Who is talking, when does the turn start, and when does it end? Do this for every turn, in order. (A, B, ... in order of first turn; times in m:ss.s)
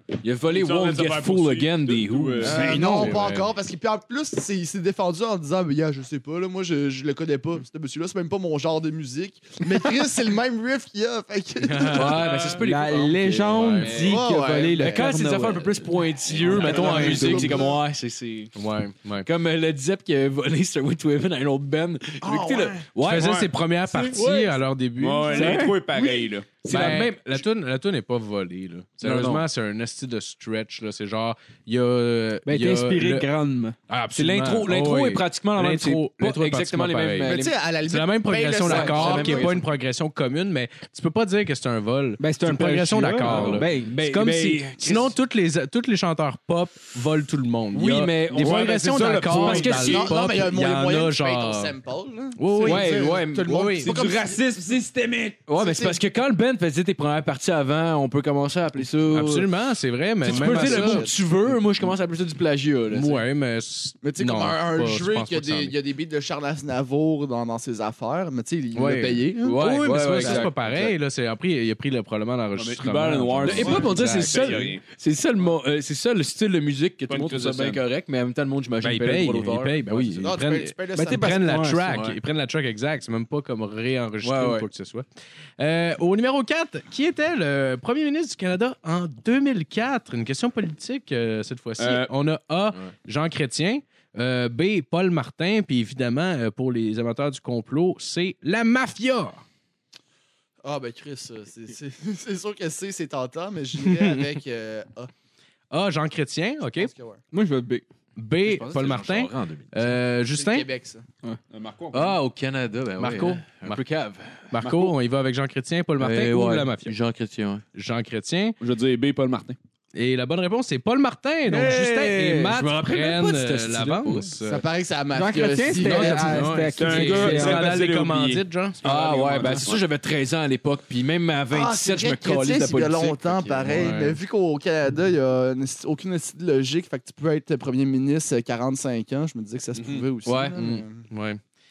0:00.2-0:03.3 A
0:00.5-0:03.0 B
0:02.4-0:12.2 C
0:03.1-0:03.4 D
0:11.6-0:12.6 D
0:11.8-0:18.5 A
0:12.6-0:15.9 E
0:13.5-0:14.0 D
0:14.0-0:15.1 C
0:16.4-0:17.7 E
0:16.5-0:17.8 C
0:16.7-0:17.1 D
0:18.5-0:19.3 D
0:19.2-0:23.5 A
0:22.2-0:22.8 C
0:23.0-0:25.7 D
0:25.0-0:26.5 B
0:25.3-0:25.8 E
0:26.6-0:27.4 A
0:26.7-0:33.3 D
0:29.0-0:29.4 A
0:32.4-0:33.8 E
0:33.9-0:51.7 D
0:34.1-0:37.5 A
0:37.2-0:39.6 C
0:38.6-0:39.6 A
0:42.2-0:44.0 E
0:43.2-0:45.1 A
0:47.7-0:48.8 A
0:48.3-0:50.1 B
0:49.3-0:50.2 A
0:49.7-0:54.6 C
0:52.4-0:53.9 D
0:52.6-0:53.8 A
0:53.8-0:55.4 B
0:55.5-0:59.5 A
0:55.6-0:56.0 C
0:59.1-1:01.1 D
1:00.2-1:03.2 A
1:00.2-1:01.2 C
1:02.9-1:05.8 D
1:04.0-1:09.6 C
1:08.7-1:14.6 D
1:09.3-1:10.9 A
1:10.1-1:10.5 C
1:12.6-1:14.8 B
1:13.4-1:20.4 A
1:17.1-1:17.8 B
1:18.8-1:25.0 D
1:20.2-1:21.4 C
1:20.9-1:21.8 E
1:21.8-1:22.2 A
1:24.2-1:24.7 A
1:25.6-1:39.4 D
1:31.8-1:32.1 B
1:40.6-1:45.1 C
1:43.8-1:44.2 D
1:45.7-1:46.9 D
1:46.7-1:47.2 C
1:47.3-1:47.8 E
1:48.2-1:50.7 D
1:48.4-1:50.0 A
1:50.3-1:51.0 C
1:51.5-1:52.2 B
1:51.9-1:54.5 A
1:53.0-1:53.8 D
1:54.5-1:56.9 D
1:54.6-1:54.9 B
1:56.0-1:57.6 A
1:57.7-1:58.6 D
1:58.6-1:59.6 B
1:59.9-2:04.6 D
2:01.5-2:02.6 E
2:02.5-2:04.4 A
2:04.4-2:06.5 C
2:05.1-2:07.7 E
2:05.8-2:08.8 D
2:06.8-2:09.8 B
2:08.8-2:14.0 A
2:11.5-2:21.0 C
2:13.7-2:14.2 D
2:19.7-2:20.0 B
2:20.2-2:20.8 A
2:20.6-2:21.4 D